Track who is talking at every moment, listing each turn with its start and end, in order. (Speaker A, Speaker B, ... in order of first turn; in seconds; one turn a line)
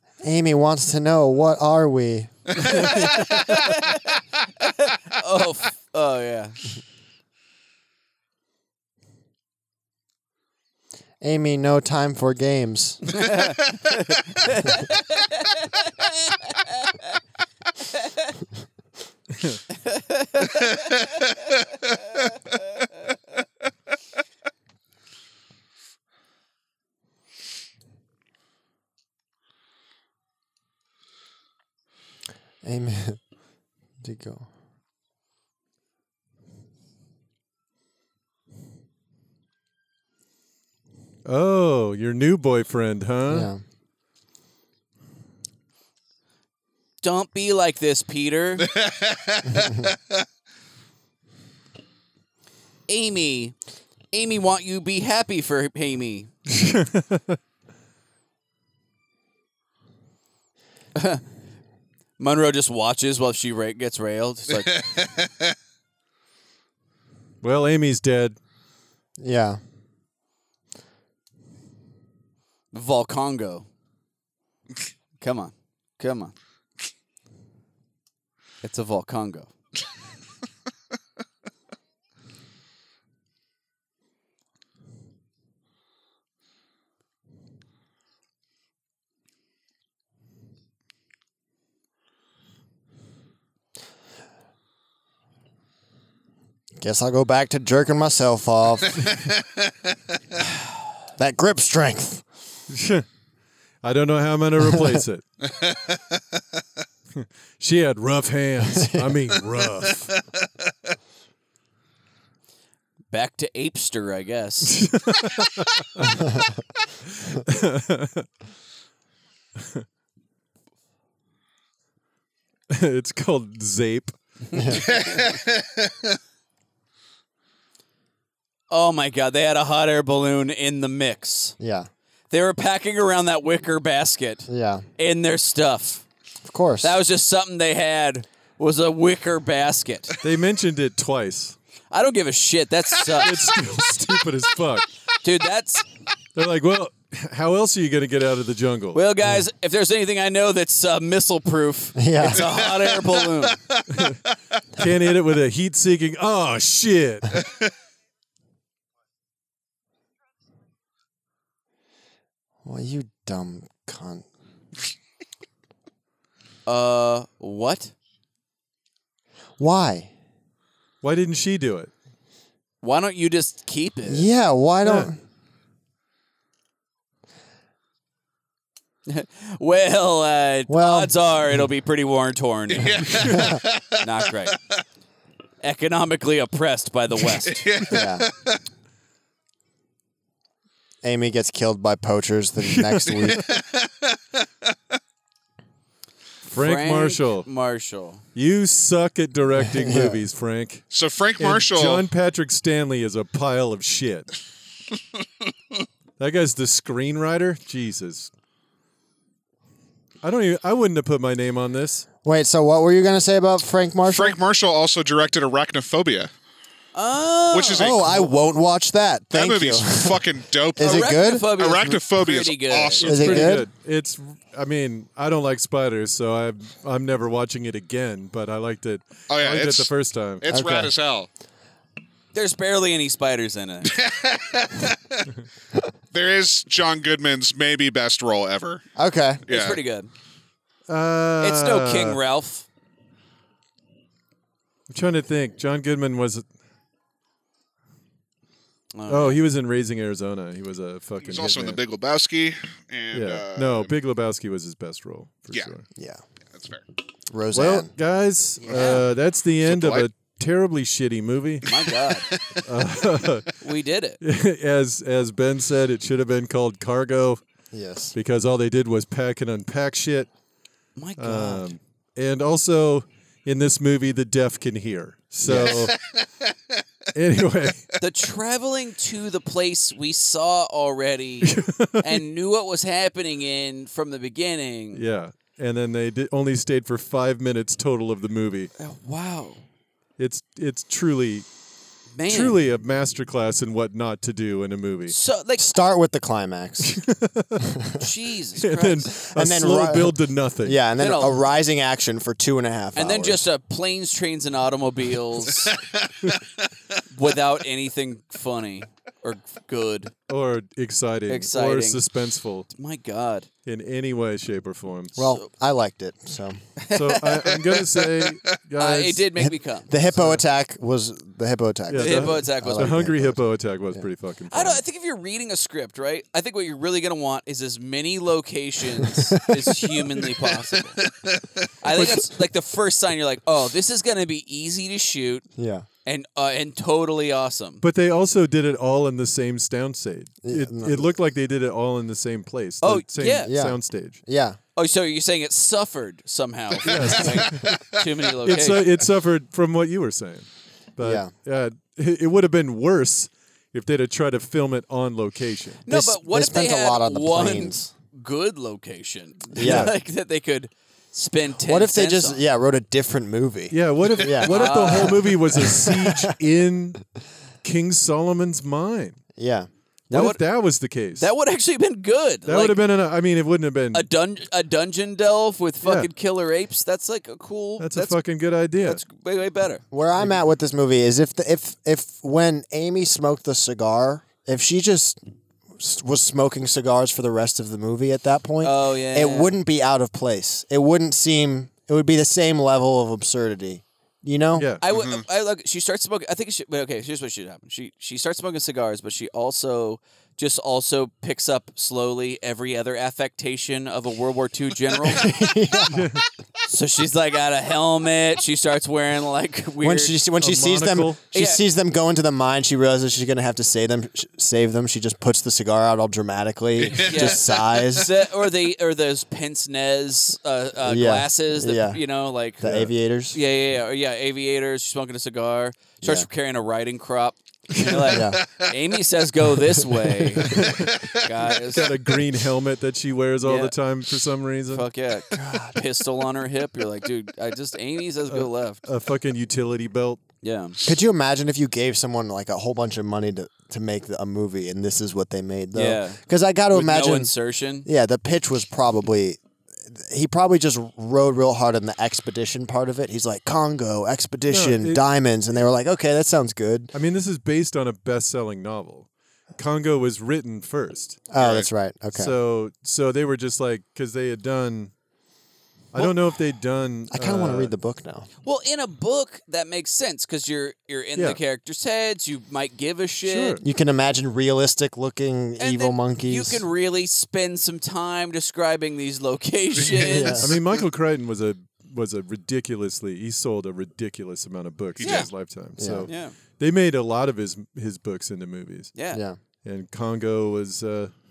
Speaker A: 0.2-3.0
Speaker B: 2.6-6.6
Speaker A: 11.2-13.2
Speaker B: 13.1-17.0
Speaker B: 19.9-20.7
Speaker A: 32.6-33.2
Speaker A: 34.0-34.5
Speaker C: 41.2-43.5
Speaker A: 43.3-43.6
Speaker B: 47.0-48.7
Speaker D: 48.7-50.2
Speaker B: 52.9-53.6
Speaker B: 54.1-56.3
Speaker C: 56.5-57.4
Speaker B: 61.0-61.2
Speaker B: 62.2-64.8
Speaker D: 64.8-65.3
Speaker C: 67.4-68.4
Speaker A: 69.2-69.6
Speaker B: 72.7-73.7
Speaker B: 75.2-76.3
Speaker B: 78.6-79.5
Speaker A: 96.8-99.1
Speaker D: 99.0-99.4
Speaker A: 101.2-102.3
Speaker C: 102.7-103.0
Speaker C: 103.8-105.2
Speaker C: 107.2-110.2
Speaker A: 108.7-109.2
Speaker B: 113.1-114.8
Speaker C: 114.7-116.0
Speaker A: 116.1-116.4
Speaker C: 117.3-118.3
Speaker C: 122.7-124.1
Speaker A: 124.5-124.8
Speaker D: 124.7-125.9
Speaker B: 128.7-131.6
Speaker A: 131.6-131.9
Speaker B: 132.3-136.1
Speaker A: 134.5-134.9
Speaker A: 136.4-137.0
Speaker B: 136.8-140.2
Speaker C: 140.2-141.6
Speaker B: 141.9-143.4
Speaker C: 143.2-144.9
Speaker B: 145.2-145.9
Speaker C: 146.3-149.0
Speaker B: 148.9-153.6
Speaker A: 152.0-152.5
Speaker D: 152.2-154.1
Speaker C: 153.9-154.2
Speaker C: 154.8-157.4
Speaker A: 162.7-164.3
Speaker B: 166.7-167.9
Speaker A: 169.6-170.1
Speaker C: 171.0-171.9
Speaker B: 172.8-174.3
Speaker A: 174.1-175.2
Speaker C: 174.8-175.1
Speaker B: 179.1-183.2
Speaker A: 180.7-181.2
Speaker D: 182.7-184.1
Speaker A: 183.3-183.6
Speaker B: 184.0-184.6
Speaker B: 185.6-187.7
Speaker D: 187.3-188.6
Speaker A: 187.9-188.3
Speaker A: 191.0-193.4
Speaker C: 192.6-193.4
Speaker D: 193.1-194.2
Speaker C: 196.4-197.5
Speaker B: 196.6-198.2
Speaker C: 198.3-200.8
Speaker A: 199.7-200.2
Speaker D: 200.9-202.1
Speaker C: 201.4-204.3
Speaker C: 206.2-208.3
Speaker C: 210.2-212.1
Speaker A: 212.2-214.4
Speaker D: 214.1-216.3
Speaker B: 216.9-218.3
Speaker D: 217.5-218.2
Speaker A: 217.8-221.6
Speaker D: 219.3-223.5
Speaker B: 220.8-223.1
Speaker C: 223.0-230.4
Speaker A: 223.0-223.7
Speaker D: 229.3-229.9
Speaker D: 230.4-231.3
Speaker A: 230.5-230.9
Speaker B: 232.3-233.9
Speaker D: 233.9-235.2
Speaker D: 236.1-238.8
Speaker A: 239.0-239.4
Speaker D: 239.5-239.8
Speaker B: 239.5-240.1
Speaker C: 240.9-242.2
Speaker B: 241.4-242.7
Speaker C: 244.9-246.4
Speaker B: 248.9-249.4
Speaker C: 249.1-251.8
Speaker D: 251.2-253.9
Speaker C: 253.1-255.8
Speaker A: 256.0-256.2
Speaker D: 256.5-256.8
Speaker A: 257.3-257.9
Speaker C: 257.5-261.7
Speaker B: 258.6-259.1
Speaker D: 259.6-260.1
Speaker B: 261.6-262.3
Speaker C: 262.6-263.5
Speaker B: 263.6-264.2
Speaker C: 264.2-267.4
Speaker A: 267.7-268.1
Speaker C: 268.1-270.3
Speaker B: 271.0-271.8
Speaker C: 271.2-276.0
Speaker A: 275.5-275.7
Speaker D: 275.5-276.3
Speaker C: 277.1-277.9
Speaker B: 278.0-285.0
Speaker C: 281.4-282.2
Speaker C: 284.9-288.7
Speaker B: 288.8-289.6
Speaker C: 290.2-291.5
Speaker B: 292.2-292.6
Speaker C: 292.3-295.1
Speaker B: 295.1-295.8
Speaker A: 295.6-297.0
Speaker C: 296.8-297.8
Speaker A: 297.6-298.0
Speaker B: 298.0-299.1
Speaker C: 298.6-300.8
Speaker A: 299.3-303.4
Speaker B: 301.0-301.4
Speaker B: 303.0-305.7
Speaker B: 307.1-310.1
Speaker C: 310.3-312.7
Speaker B: 311.3-312.0
Speaker B: 312.7-313.5
Speaker C: 313.7-315.2
Speaker A: 315.2-316.6
Speaker B: 316.8-317.9
Speaker C: 316.9-319.3
Speaker B: 318.8-319.9
Speaker A: 319.4-323.4
Speaker C: 320.1-320.4
Speaker C: 321.9-324.8
Speaker B: 322.0-323.0
Speaker B: 324.5-331.0
Speaker A: 329.5-330.1
Speaker B: 331.8-335.4
Speaker C: 331.9-332.2
Speaker A: 335.6-335.9
Speaker B: 336.1-337.8
Speaker C: 337.8-344.2
Speaker A: 340.4-341.1
Speaker B: 342.8-343.5
Speaker A: 343.5-344.6
Speaker B: 344.8-348.9
Speaker D: 346.7-348.7
Speaker C: 346.8-347.7
Speaker C: 348.4-350.5
Speaker C: 351.0-355.8
Speaker A: 351.0-351.3
Speaker B: 355.9-362.4
Speaker A: 355.9-357.9
Speaker A: 359.6-359.9
Speaker C: 359.6-359.9
Speaker A: 361.6-366.4
Speaker C: 363.7-367.0
Speaker B: 364.4-365.3
Speaker C: 367.6-369.2
Speaker A: 369.4-369.7
Speaker B: 370.1-370.4
Speaker C: 370.1-371.3
Speaker B: 371.2-372.8
Speaker C: 372.5-374.1
Speaker B: 373.9-378.2
Speaker C: 375.8-376.1
Speaker C: 377.8-379.0
Speaker B: 378.8-379.8
Speaker A: 379.9-385.2
Speaker A: 385.8-394.7
Speaker B: 388.6-389.6
Speaker C: 394.6-394.8
Speaker B: 394.8-405.3
Speaker D: 394.9-395.2
Speaker A: 405.1-406.1
Speaker C: 405.9-406.2
Speaker B: 406.7-410.1
Speaker A: 409.8-418.1
Speaker C: 410.4-411.2
Speaker B: 411.3-411.6
Speaker D: 416.8-417.9
Speaker B: 417.1-422.7
Speaker A: 420.8-422.0
Speaker A: 422.6-423.4
Speaker C: 422.6-422.9
Speaker B: 423.3-430.6
Speaker A: 426.0-426.3
Speaker C: 427.7-428.2
Speaker A: 428.1-428.4
Speaker D: 428.4-428.7
Speaker C: 430.4-430.9
Speaker A: 430.4-430.8
Speaker D: 430.6-431.9
Speaker B: 431.2-431.9
Speaker C: 431.7-434.9
Speaker B: 433.4-433.7
Speaker B: 434.7-438.8
Speaker A: 435.3-435.8
Speaker C: 438.3-440.2
Speaker B: 440.4-440.8
Speaker A: 440.8-447.3
Speaker B: 445.7-446.2
Speaker B: 446.7-447.9
Speaker A: 447.9-456.9
Speaker C: 454.5-455.0
Speaker C: 456.9-461.2
Speaker A: 461.3-462.3
Speaker D: 461.4-461.7
Speaker C: 462.1-464.9
Speaker C: 465.9-467.7
Speaker A: 467.1-468.3
Speaker B: 468.4-473.6
Speaker C: 473.2-473.6
Speaker A: 473.6-476.6
Speaker B: 475.6-480.5
Speaker D: 479.7-480.8
Speaker A: 480.1-480.6
Speaker C: 480.4-488.9
Speaker D: 485.0-485.3
Speaker B: 485.0-485.3
Speaker A: 485.8-486.1
Speaker B: 486.1-486.4
Speaker B: 488.9-489.2
Speaker A: 489.1-489.4
Speaker C: 489.6-491.1